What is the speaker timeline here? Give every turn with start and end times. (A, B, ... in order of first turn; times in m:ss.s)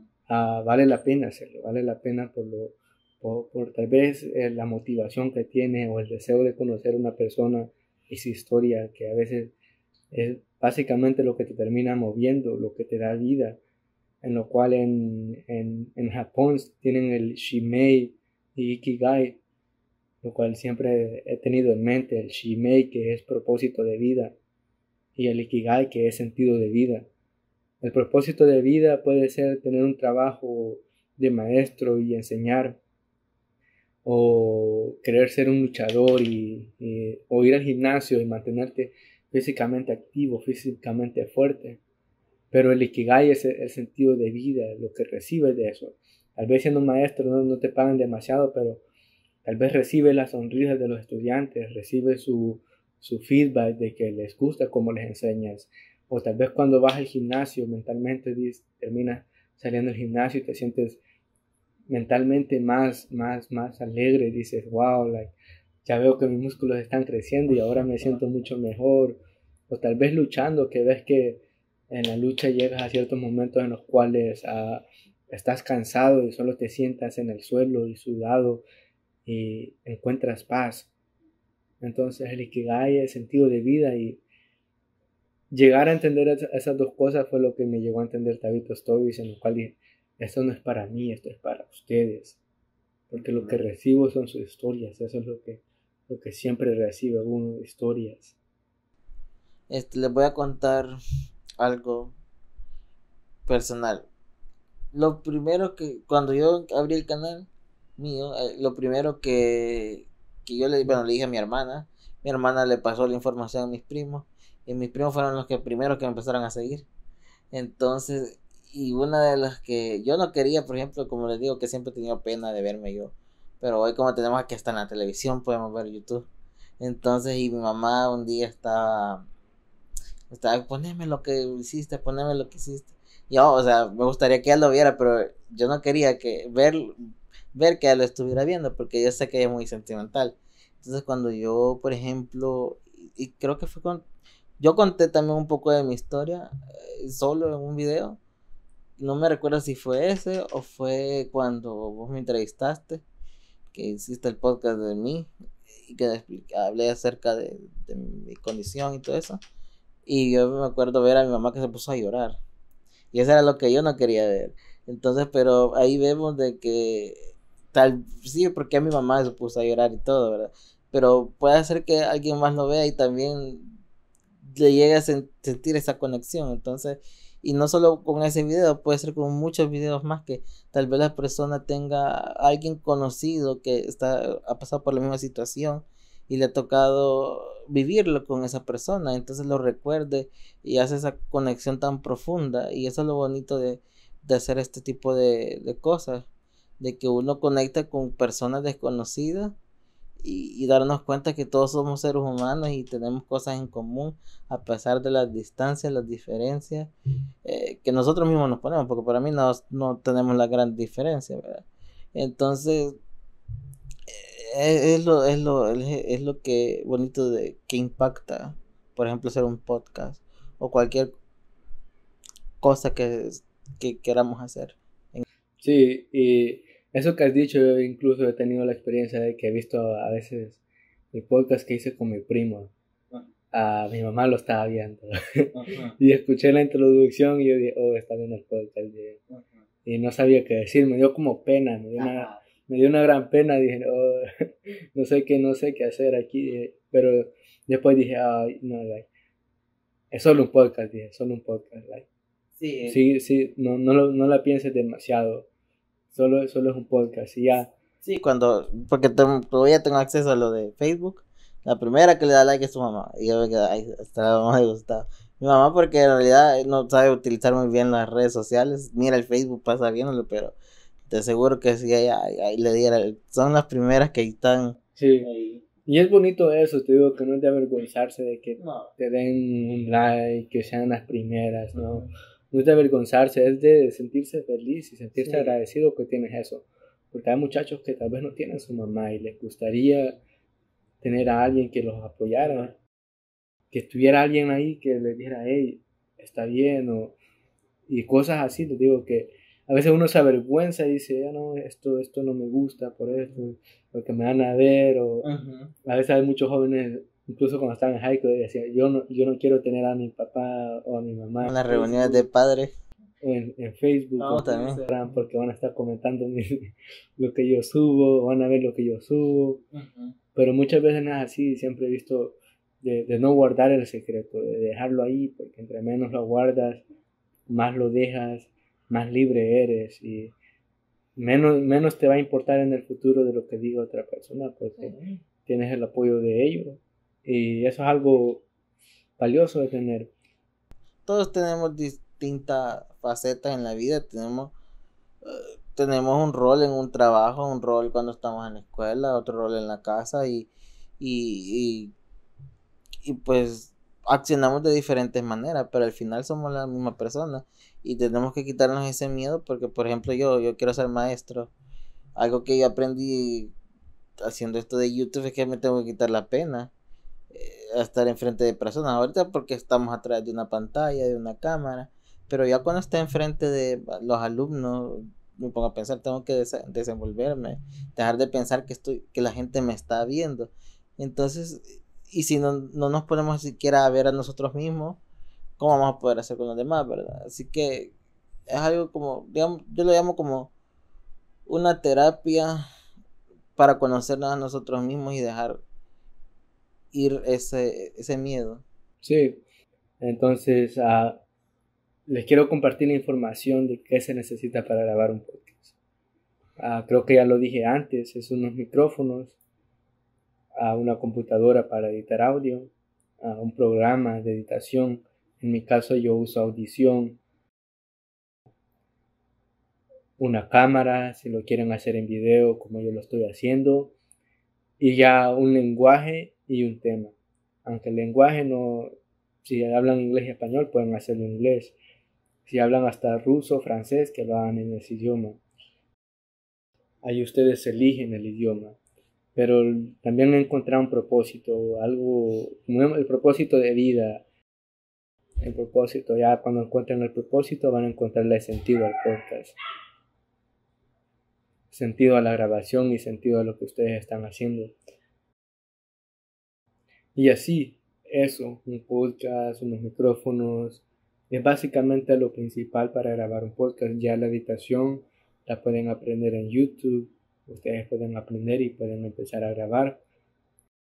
0:00.3-0:09.5 A
0:10.1-0:13.6 A
0:14.2-0:19.4 A
0:20.2-0:24.4 A
0:25.2-0:27.1 A
0:27.8-0:32.8 A
0:34.0-0:41.8 A
0:42.5-0:48.8 A
0:49.4-1:01.0 A
1:01.9-1:18.6 A
1:19.3-1:20.9 A
1:21.8-1:24.2 A
1:25.5-1:32.4 A
1:33.1-1:38.4 A
1:33.2-1:33.6 B
1:39.7-1:41.0 B
1:41.6-1:42.1 B
1:43.5-1:44.1 B
1:44.9-1:56.9 B
1:57.5-2:06.3 B
2:06.8-2:09.2 B
2:10.3-2:24.0 B
2:24.6-2:28.2 B
2:29.0-2:33.0 B
2:33.7-2:39.4 B
2:40.1-2:42.4 B
2:43.1-2:47.2 B
2:47.7-2:53.8 B
2:54.4-3:16.3 B
3:16.8-3:19.6 B
3:20.2-3:26.9 B
3:27.4-3:31.6 B
3:32.2-3:33.0 B
3:34.1-3:41.1 B
3:42.6-3:45.2 B
3:45.6-3:50.6 A
3:51.1-3:52.7 A
3:53.5-3:59.2 A
3:55.6-3:56.0 B
3:59.8-4:09.1 A
4:02.0-4:02.4 B
4:10.1-4:12.1 A
4:12.6-4:13.0 B
4:12.9-4:15.5 A
4:16.1-4:17.7 A
4:18.0-4:30.6 B
4:31.1-4:35.6 B
4:35.0-4:35.3 A
4:35.8-4:50.2 A
4:38.6-4:38.9 B
4:45.2-4:45.6 B
4:51.0-4:52.8 A
4:53.7-4:57.2 A
4:57.9-5:05.3 A
5:05.2-5:05.7 B
5:05.8-5:12.3 A
5:11.4-5:12.7 B
5:13.2-5:19.6 A
5:14.2-5:14.9 B
5:19.7-5:20.1 B
5:20.4-5:26.8 A
5:27.5-5:30.3 A
5:31.2-5:38.4 A
5:34.8-5:35.2 B
5:39.2-5:40.1 A
5:41.1-5:44.5 B
5:45.2-5:50.5 B
5:51.0-5:51.9 B
5:53.0-6:01.5 B
6:02.2-6:03.5 B
6:04.2-6:06.7 B
6:07.3-6:25.0 B
6:25.6-6:27.9 B
6:28.5-6:30.5 B
6:31.5-6:32.7 B
6:33.6-6:35.6 B
6:36.9-6:38.6 B
6:39.0-6:39.4 A
6:40.0-6:41.2 A
6:42.1-6:45.7 A
6:46.6-6:49.4 A
6:50.6-6:57.2 A
7:00.2-7:03.9 A
7:04.8-7:07.1 A
7:07.6-7:08.9 A
7:09.4-7:11.8 A
7:12.5-7:15.4 A
7:17.0-7:18.8 A
7:19.4-7:24.2 A
7:25.4-7:29.6 A
7:31.7-7:34.8 A
7:37.2-7:50.0 A